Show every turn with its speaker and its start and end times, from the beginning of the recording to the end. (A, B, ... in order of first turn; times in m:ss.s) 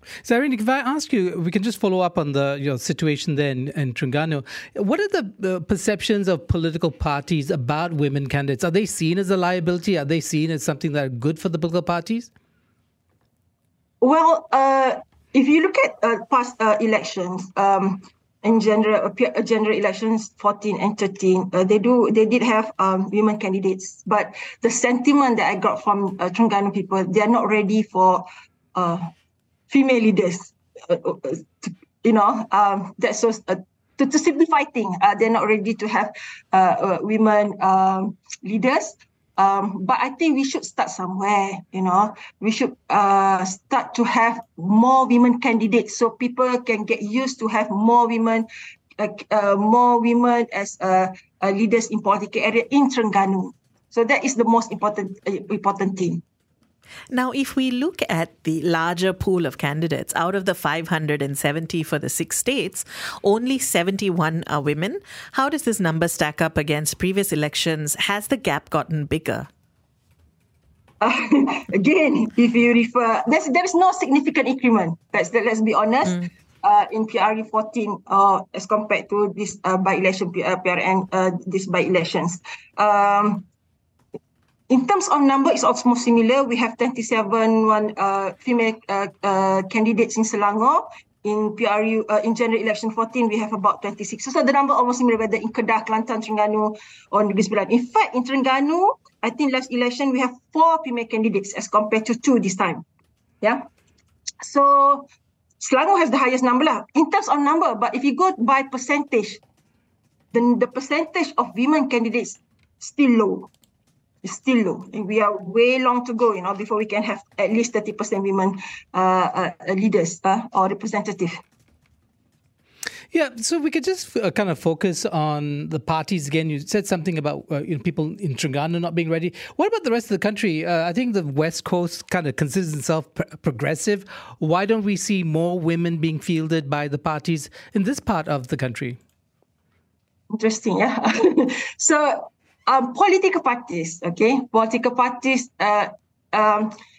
0:00.2-0:12.3 A
0:14.0-0:29.1 B
0:29.7-0:56.2 B
0:57.1-1:09.5 C
1:11.0-1:23.4 B
1:24.7-1:42.8 B
1:43.4-1:43.7 B
1:44.4-1:45.1 B
1:45.6-1:49.4 B
1:50.3-1:53.5 B
1:54.2-2:01.4 B
2:03.1-2:19.0 A
2:20.3-2:26.7 B